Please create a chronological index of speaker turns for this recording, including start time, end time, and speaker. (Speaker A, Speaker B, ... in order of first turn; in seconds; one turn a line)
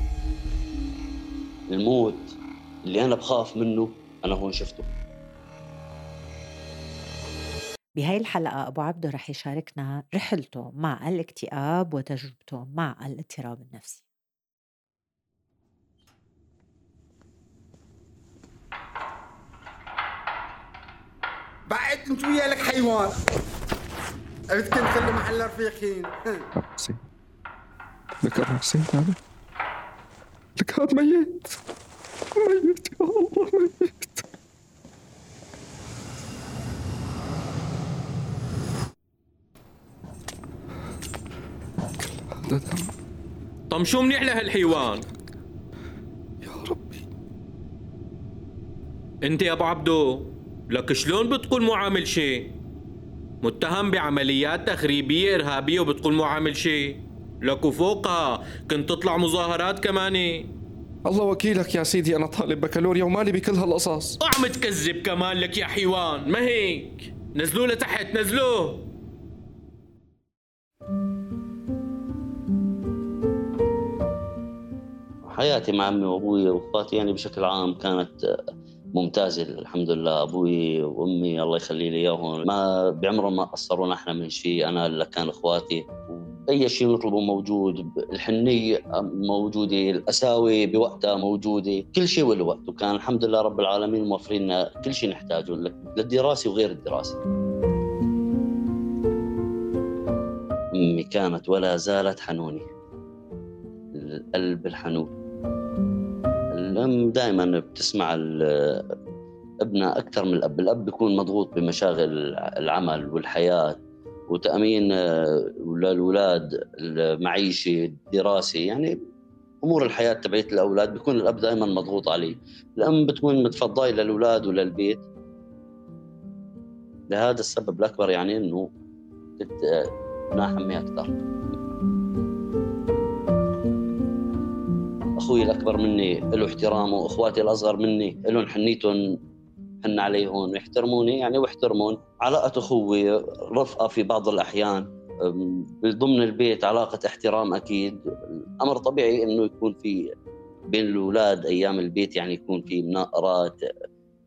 Speaker A: 1.7-4.9
Speaker B: 8.0-14.0
Speaker C: 21.7-23.1
Speaker C: 24.5-26.2
Speaker D: 26.6-27.0
Speaker D: 28.2-29.2
Speaker D: 30.6-31.4
Speaker D: 32.4-34.2
Speaker D: 42.3-42.9
Speaker E: 43.7-45.0
Speaker D: 46.4-47.0
Speaker E: 49.2-52.5
Speaker E: 53.4-60.5
Speaker D: 61.1-64.2
Speaker E: 64.2-68.9
Speaker A: 75.3-78.1
Speaker A: 78.9-97.2
Speaker A: 100.8-102.7
Speaker A: 103.9-105.1
Speaker A: 106.5-108.9
Speaker A: 109.6-118.9
Speaker A: 119.6-125.1
Speaker A: 127.1-128.7
Speaker A: 129.4-131.1
Speaker A: 135.2-139.0
Speaker A: 139.8-150.0
Speaker A: 150.7-153.6